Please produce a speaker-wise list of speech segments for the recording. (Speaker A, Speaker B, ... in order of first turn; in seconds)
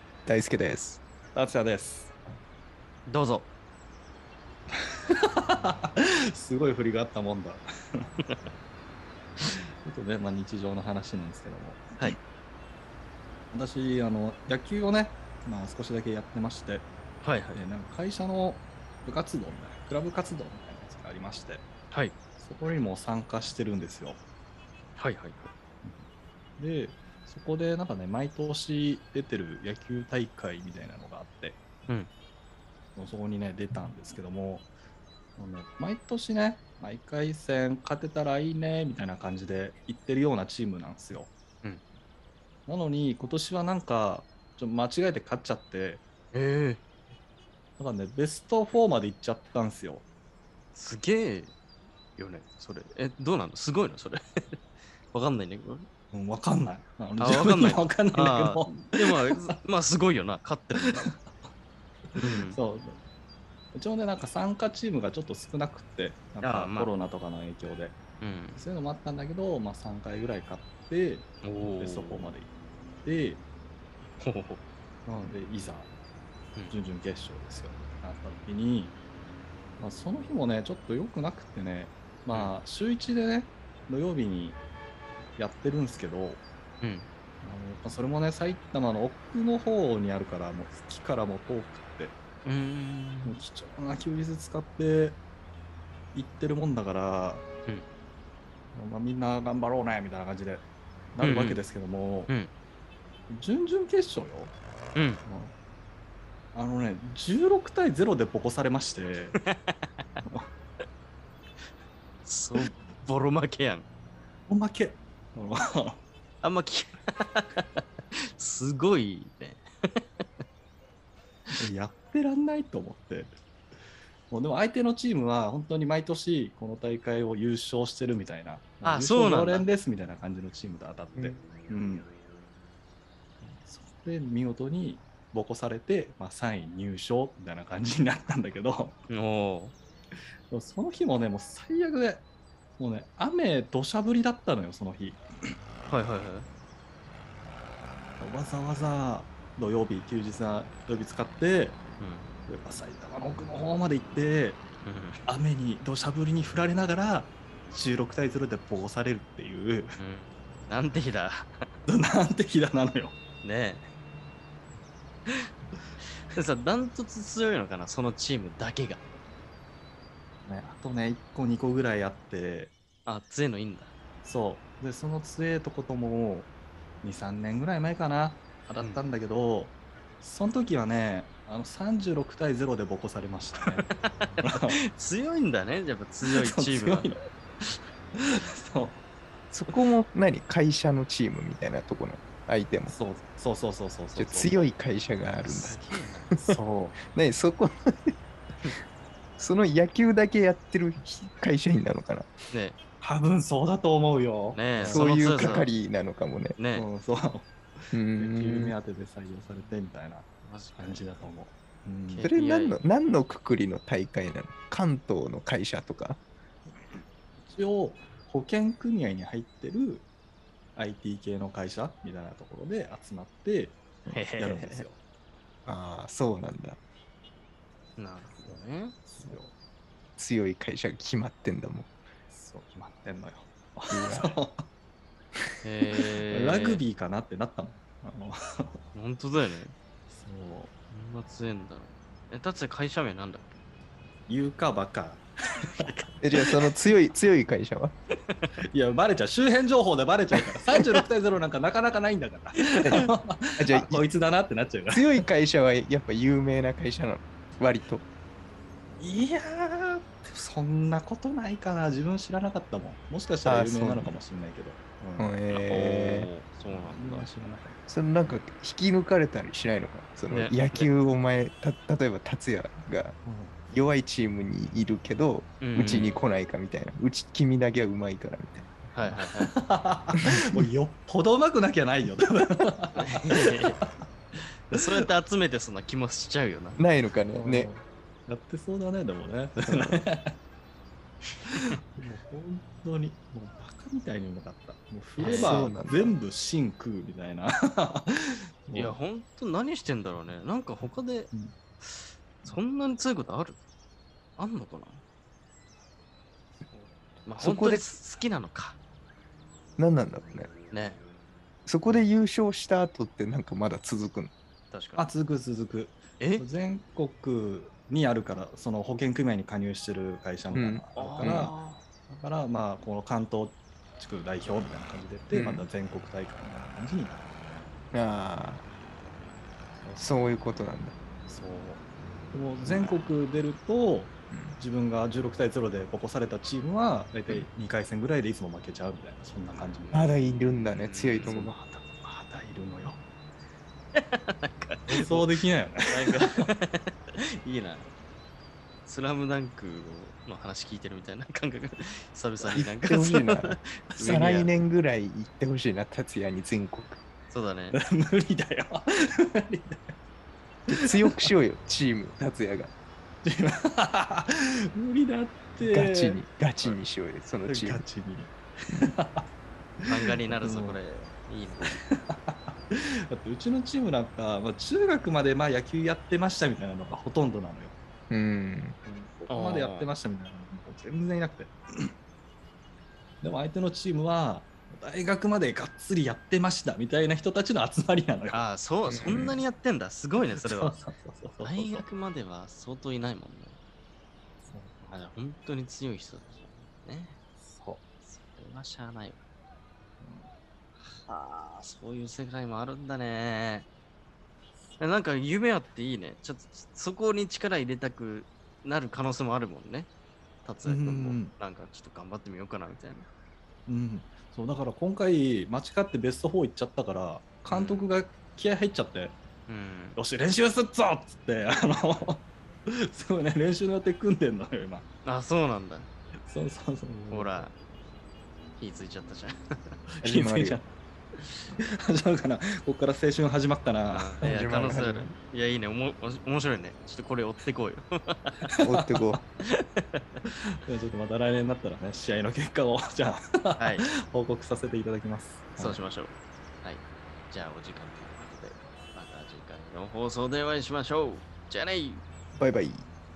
Speaker A: 0.2-1.0, 189.5-192.9, 194.2-195.8, 196.3-198.1, 199.4-202.3, 204.8-206.6, 207.9-208.7, 212.2-216.2, 225.7-226.8, 230.2-231.9, 233.9-234.3, 246.2-247.9, 253.6-254.0, 254.9-258.0, 263.4-264.1, 265.2-266.3, 267.9-273.2, 273.7-278.7, 280.2-280.6, 286.8-287.7, 295.3-296.1, 307.4-308.0, 309.8-310.5, 311.6-314.3, 320.5-321.5, 325.3-325.6, 327.9-328.6, 329.9-331.0, 332.6-333.0, 334.3-334.6, 339.9-341.5, 352.8-357.0, 360.7-362.7, 365.6-367.8, 378.1-378.8, 388.9-389.4, 430.0-430.6, 434.2-435.1, 438.6-439.2, 452.4-452.9
Speaker B: 1.3-2.1, 5.1-8.1, 9.4-12.2, 13.5-16.9, 17.5-21.6, 22.4-24.2, 26.6-31.6, 33.0-34.7, 35.4-41.3, 42.7-46.0, 47.8-50.0, 56.1-59.5, 60.9-61.2, 62.1-63.0, 63.7-68.0, 68.5-72.5, 73.0-73.4, 75.1-75.9, 76.7-79.0, 79.8-84.6, 85.4-86.4, 87.4-92.2, 93.2-95.2, 96.1-97.4, 98.7-102.3, 103.3-104.5, 105.2-105.5, 106.5-109.4, 114.5-116.0, 121.6-123.3, 124.3-132.1, 133.4-139.0, 140.5-142.2, 142.8-145.5, 148.2-151.8, 152.5-154.6, 155.2-159.9, 161.9-163.2, 170.4-172.7, 174.2-176.5, 177.0-183.9, 184.4-184.8, 186.3-187.2, 188.2-189.0, 192.9-194.7, 196.5-197.0, 203.0-205.6, 206.7-212.3, 216.9-220.1, 220.8-225.0, 228.5-229.5, 232.3-234.6, 236.3-238.8, 240.1-240.7, 244.3-245.2, 245.8-246.1, 248.7-255.1, 259.0-265.4, 266.7-267.8, 273.2-273.6, 279.1-283.8, 287.4-290.3, 292.0-298.1, 298.7-299.0, 315.0-321.5, 322.1-327.2, 331.3-340.2, 341.2-343.0, 344.9-346.4, 357.7-359.8, 363.2-366.8, 367.5-369.3, 369.8-370.8, 371.7-377.7, 378.8-381.9, 383.2-388.5, 390.3-391.9, 394.4-394.7, 397.4-397.8, 400.0-400.3, 410.6-411.3, 413.7-419.1, 419.9-422.2, 422.9-424.8, 426.3-427.5, 430.0-430.7, 431.9-434.3, 438.6-439.0, 440.6-445.8
Speaker C: 3.0-3.5, 17.2-17.6, 21.9-22.1, 25.0-25.5, 46.3-46.8, 50.7-51.5, 52.2-54.2, 55.1-55.9, 57.2-61.1, 62.1-62.6, 66.4-66.9, 68.2-68.6, 71.4-72.3, 74.2-74.6, 86.8-87.1, 92.4-93.4, 101.2-101.6, 109.4-110.0, 112.2-113.9, 116.4-117.8, 118.3-119.6, 128.8-129.7, 139.1-139.7, 145.9-146.5, 152.0-152.3, 154.8-155.2, 160.0-161.5, 163.4-163.8, 166.3-169.0, 173.0-173.9, 184.0-184.3, 184.9-187.2, 195.4-196.4, 202.5-202.8, 204.5-205.7, 206.6-206.9, 210.4-211.2, 212.1-212.8, 224.1-224.8, 228.0-229.0, 235.6-236.8, 238.9-239.7, 240.9-243.6, 265.5-267.3, 270.3-270.9, 275.6-276.2, 278.9-279.5, 282.9-283.8, 284.7-286.8, 295.2-295.7, 298.7-301.3, 301.8-303.6, 304.4-305.0, 306.8-308.8, 310.7-311.0, 314.7-315.0, 316.2-316.4, 320.9-321.9, 339.6-339.9, 340.7-341.4, 343.9-345.3, 345.9-346.9, 347.4-347.9, 348.9-354.5, 357.3-357.8, 369.9-371.8, 379.3-379.9, 388.3-390.8, 391.4-393.6, 394.8-397.1, 398.1-399.2, 401.0-403.6, 404.8-409.9, 410.4-413.1, 417.5-417.9, 419.5-420.0, 425.0-425.9, 427.1-427.5, 428.6-429.3, 433.9-438.5, 439.5-440.0, 443.6-443.9, 445.6-452.0